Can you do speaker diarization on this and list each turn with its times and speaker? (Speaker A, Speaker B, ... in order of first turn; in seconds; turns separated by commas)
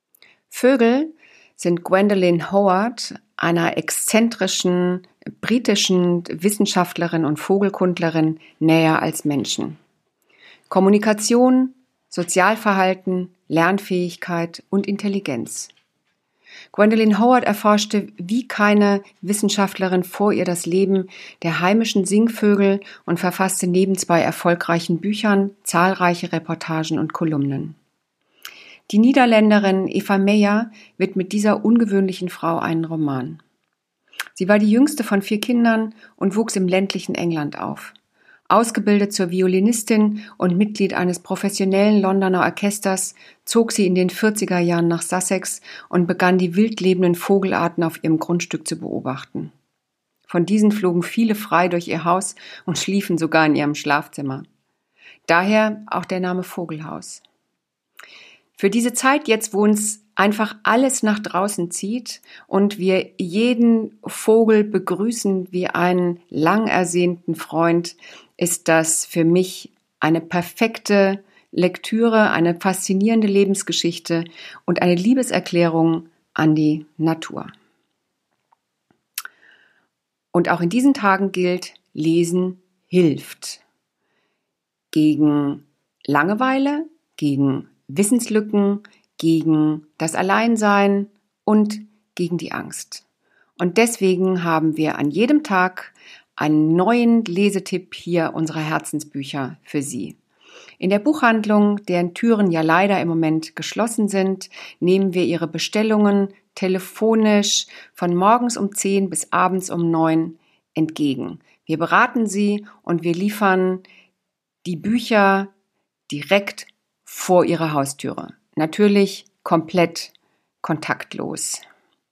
Speaker A: 0.5-9.8, Speaker A: 10.7-15.7, Speaker A: 16.7-27.8, Speaker A: 28.9-33.4, Speaker A: 34.4-37.9, Speaker A: 38.5-49.5, Speaker A: 50.3-54.5, Speaker A: 55.3-57.2, Speaker A: 58.6-77.5, Speaker A: 80.3-83.6, Speaker A: 84.9-93.0, Speaker A: 93.6-100.2, Speaker A: 100.8-113.8, Speaker A: 114.6-115.5, Speaker A: 116.1-121.6